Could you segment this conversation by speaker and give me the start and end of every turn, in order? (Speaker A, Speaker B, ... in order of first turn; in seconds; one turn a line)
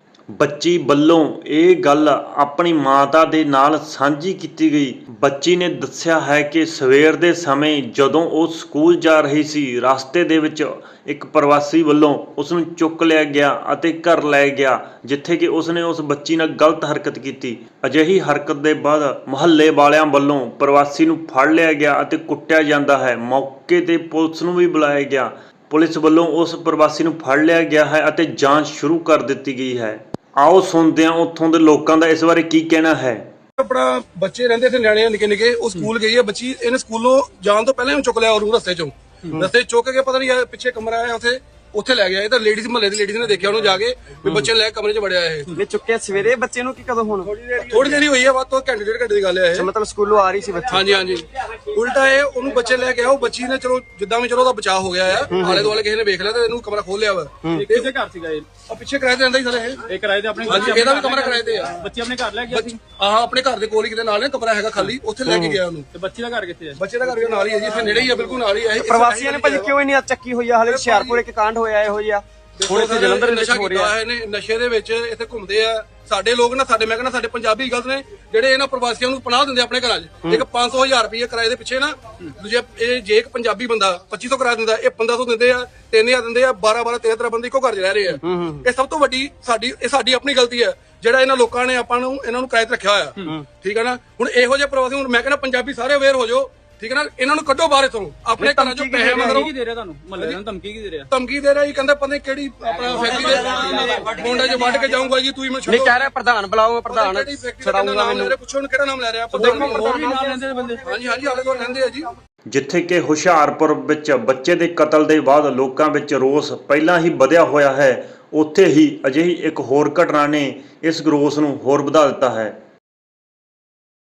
Speaker A: 0.3-33.2
Speaker B: 33.6-45.6
Speaker C: 45.5-47.5
Speaker D: 47.5-48.0
Speaker B: 47.6-49.7
Speaker C: 49.5-51.0
Speaker B: 50.7-57.9
Speaker C: 55.2-55.7
Speaker D: 57.5-58.5
Speaker B: 58.7-59.8
Speaker D: 59.8-62.8
Speaker B: 60.5-61.8
Speaker B: 62.5-65.9
Speaker C: 65.2-65.6
Speaker D: 65.9-68.3
Speaker B: 66.8-69.7
Speaker C: 68.8-73.9
Speaker B: 70.6-71.2
Speaker B: 72.5-99.5
Speaker C: 88.2-88.6
Speaker C: 98.4-99.5
Speaker D: 99.0-101.1
Speaker B: 101.1-106.0
Speaker D: 102.9-104.7
Speaker C: 103.7-104.2
Speaker C: 105.7-108.4
Speaker B: 106.9-112.1
Speaker D: 109.3-110.9
Speaker A: 112.5-122.5